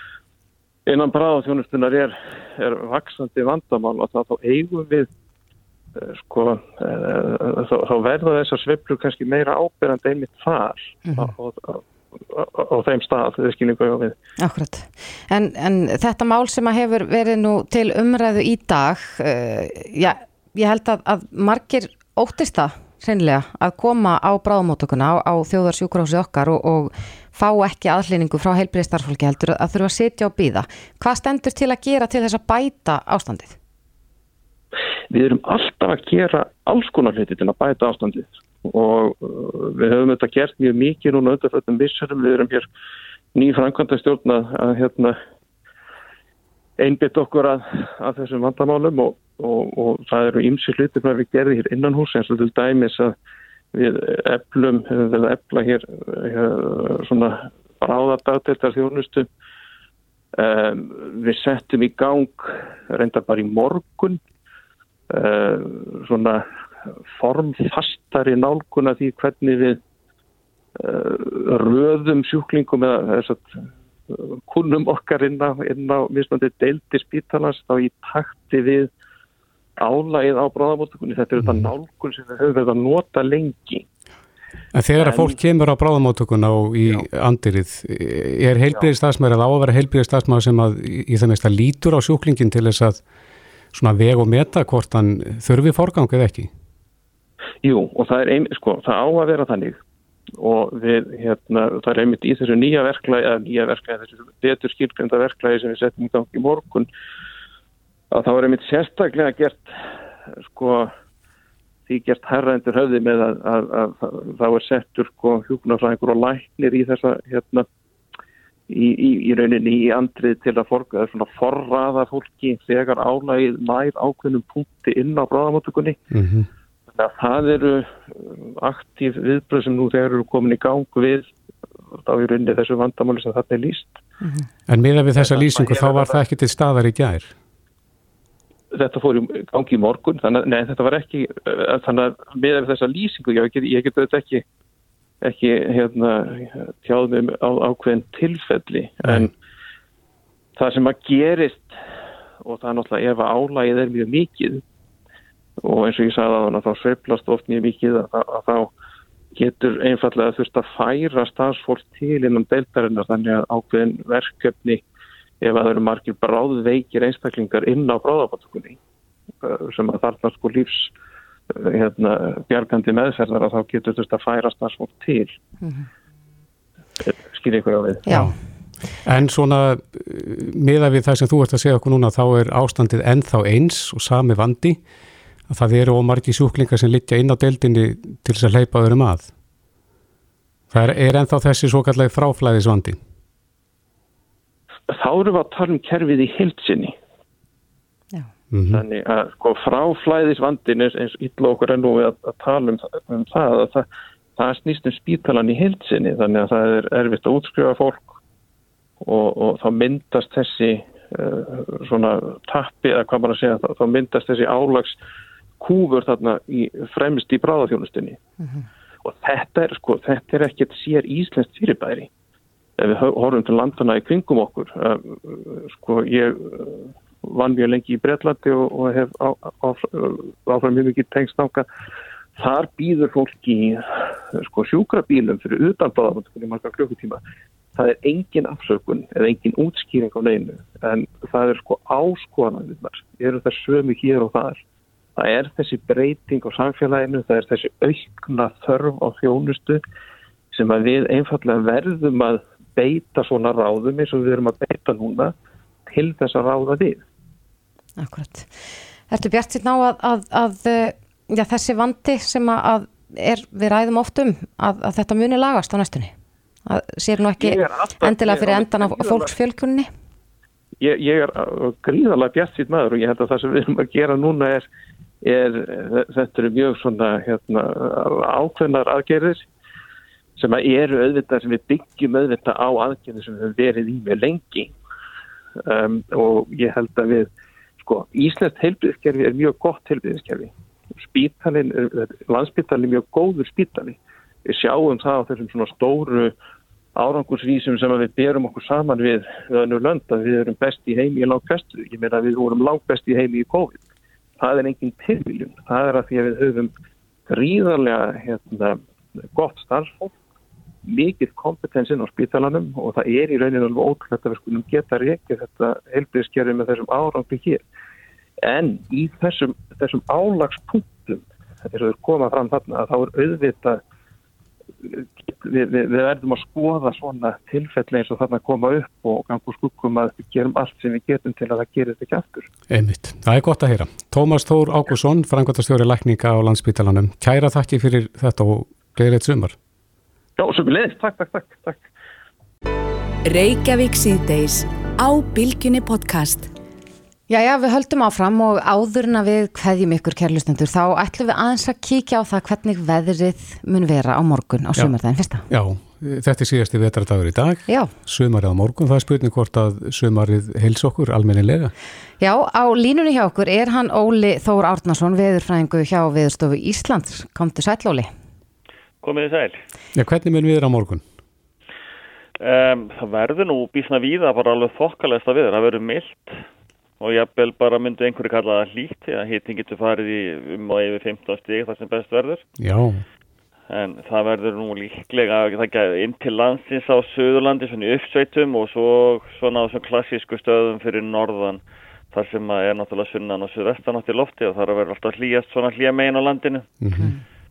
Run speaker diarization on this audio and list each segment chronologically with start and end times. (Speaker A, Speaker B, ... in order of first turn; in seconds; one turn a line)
Speaker A: 0.8-5.1
Speaker A: 6.0-14.2
Speaker B: 11.0-11.3
Speaker B: 14.4-33.6
Speaker A: 35.1-42.6
Speaker A: 43.3-45.1
Speaker A: 46.8-53.1
Speaker A: 53.7-59.3
Speaker A: 60.4-64.2
Speaker A: 65.1-66.4
Speaker A: 67.1-69.8
Speaker A: 70.8-73.6
Speaker A: 74.1-78.9
Speaker A: 79.8-83.8
Speaker C: 81.4-81.7
Speaker C: 84.7-93.0
Speaker A: 85.0-85.4
Speaker C: 93.7-96.5
Speaker A: 97.6-99.8
Speaker A: 100.4-106.9
Speaker A: 108.1-109.7
Speaker A: 110.4-110.9
Speaker A: 111.9-117.7
Speaker A: 118.7-126.0
Speaker C: 126.1-126.5
Speaker A: 126.9-131.3
Speaker A: 132.0-134.0
Speaker C: 134.7-137.3
Speaker A: 135.2-136.2
Speaker A: 138.7-144.4
Speaker A: 145.2-149.3
Speaker A: 150.6-151.7
Speaker A: 152.4-154.6
Speaker A: 155.6-158.7
Speaker A: 159.3-164.8
Speaker A: 165.4-168.8
Speaker A: 169.4-170.9
Speaker A: 171.5-175.3
Speaker A: 177.0-178.0
Speaker B: 178.1-178.3
Speaker C: 179.0-184.8
Speaker C: 185.5-189.3
Speaker C: 190.7-193.0
Speaker A: 194.9-196.9
Speaker C: 198.5-198.8
Speaker A: 198.7-208.2
Speaker A: 209.0-215.0
Speaker A: 215.6-218.2
Speaker A: 219.0-222.1
Speaker A: 222.8-231.7
Speaker A: 232.3-237.2
Speaker A: 237.7-244.6
Speaker A: 245.2-249.8
Speaker A: 250.5-255.3
Speaker A: 255.9-257.0
Speaker B: 258.0-258.5
Speaker B: 259.1-266.1
Speaker B: 266.6-269.9
Speaker A: 267.4-269.3
Speaker A: 270.8-274.7
Speaker A: 275.2-279.5
Speaker A: 280.4-284.7
Speaker A: 285.6-296.3
Speaker A: 296.9-303.8
Speaker A: 304.4-306.7
Speaker A: 307.3-308.8
Speaker A: 309.3-310.1
Speaker A: 310.9-317.6
Speaker A: 318.4-323.8
Speaker A: 324.8-332.5
Speaker C: 332.7-339.5
Speaker A: 340.4-341.9
Speaker D: 343.2-346.5
Speaker B: 347.3-355.4
Speaker C: 355.5-361.7
Speaker B: 362.2-368.1
Speaker E: 369.0-369.6
Speaker C: 369.9-371.0
Speaker E: 372.4-376.4
Speaker E: 377.0-382.4
Speaker C: 382.6-383.0
Speaker E: 383.7-391.6
Speaker E: 392.1-396.6
Speaker C: 396.8-397.1